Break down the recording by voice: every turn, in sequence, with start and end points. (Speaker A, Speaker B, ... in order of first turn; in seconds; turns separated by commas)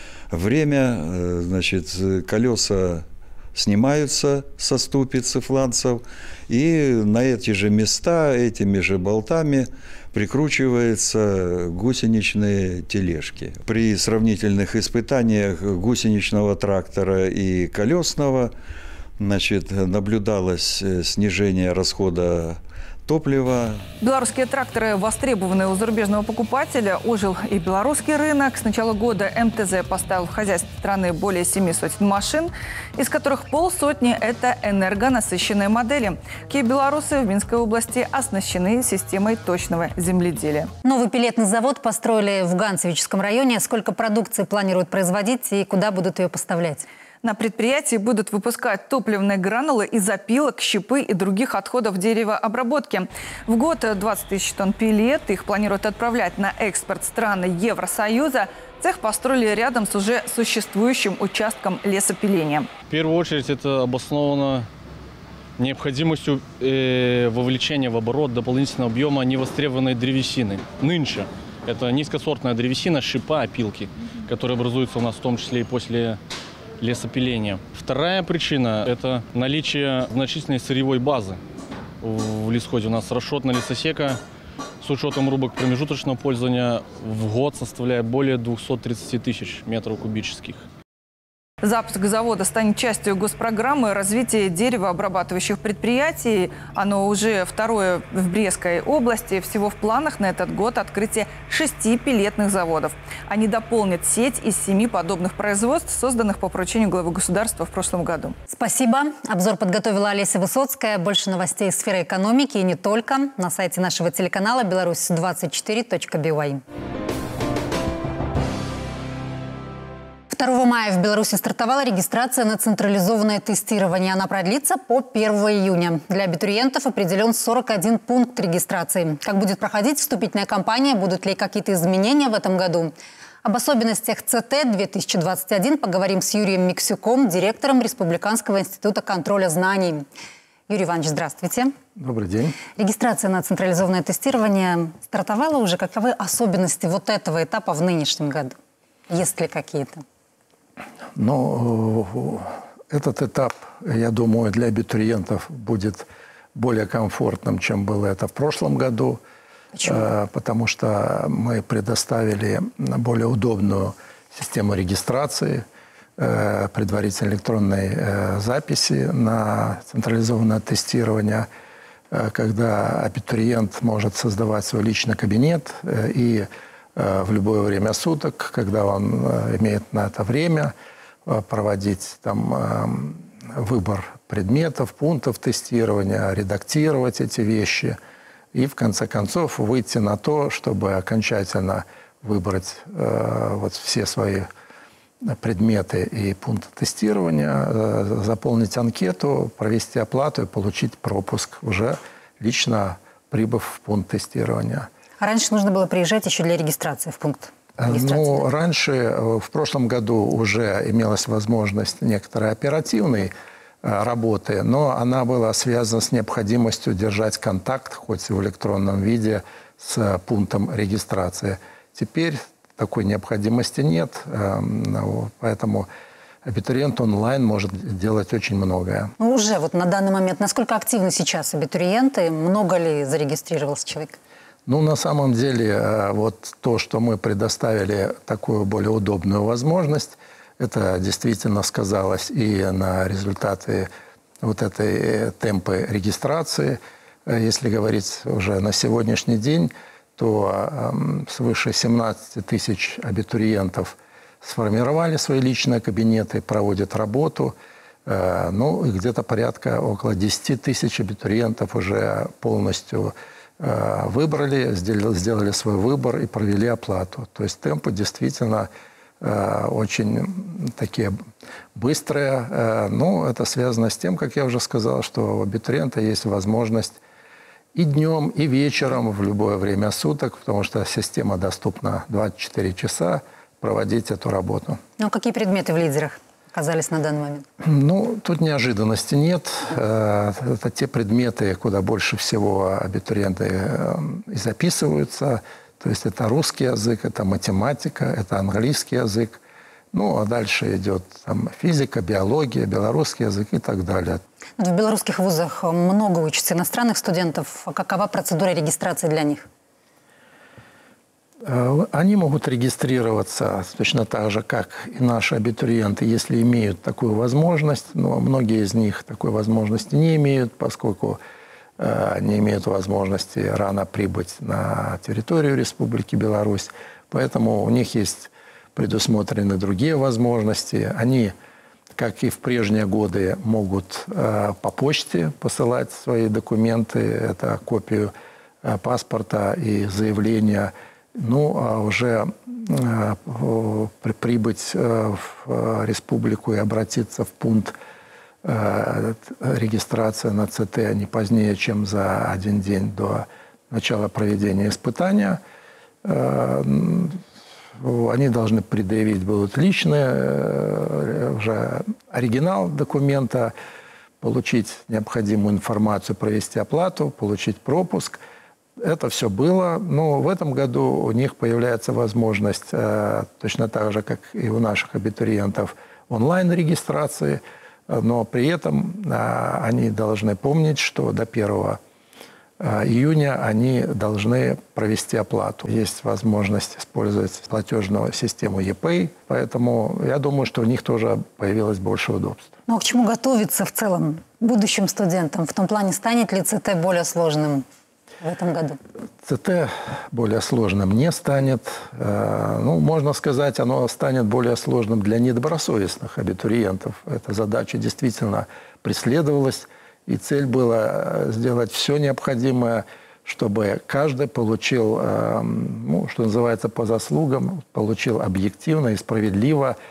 Speaker A: 0.3-18.5, Speaker A: 19.2-23.8, Speaker B: 24.0-40.7, Speaker C: 40.8-46.9, Speaker B: 47.2-62.7, Speaker D: 62.9-64.7, Speaker D: 65.6-76.2, Speaker D: 76.8-81.4, Speaker D: 82.0-84.2, Speaker D: 84.8-90.6, Speaker B: 91.6-108.3, Speaker C: 108.5-116.6, Speaker C: 120.3-132.9, Speaker C: 133.4-140.1, Speaker C: 140.7-141.7, Speaker E: 142.0-142.6, Speaker C: 142.8-148.6, Speaker C: 149.1-150.0, Speaker E: 151.2-159.2, Speaker C: 159.8-160.0, Speaker E: 159.8-165.7, Speaker E: 166.2-171.5, Speaker E: 172.1-180.7, Speaker E: 181.3-188.0, Speaker E: 188.5-194.5, Speaker E: 195.2-204.9, Speaker C: 205.2-208.4, Speaker E: 207.8-225.9, Speaker E: 226.4-229.1, Speaker C: 229.2-234.2, Speaker E: 234.7-243.9, Speaker E: 244.4-257.5, Speaker E: 258.1-268.7, Speaker E: 269.2-271.2, Speaker E: 271.8-277.0, Speaker E: 277.7-284.8, Speaker C: 285.0-287.5, Speaker E: 287.6-299.4, Speaker E: 299.9-304.2, Speaker C: 304.6-309.4, Speaker E: 311.4-321.2, Speaker E: 321.8-331.3, Speaker E: 332.0-338.1, Speaker E: 338.6-347.8, Speaker E: 348.4-355.4, Speaker E: 356.0-357.2, Speaker E: 357.8-363.5, Speaker E: 364.2-368.2, Speaker E: 368.8-381.8, Speaker E: 382.6-392.6, Speaker C: 392.7-397.6, Speaker C: 398.2-398.8, Speaker E: 399.2-419.8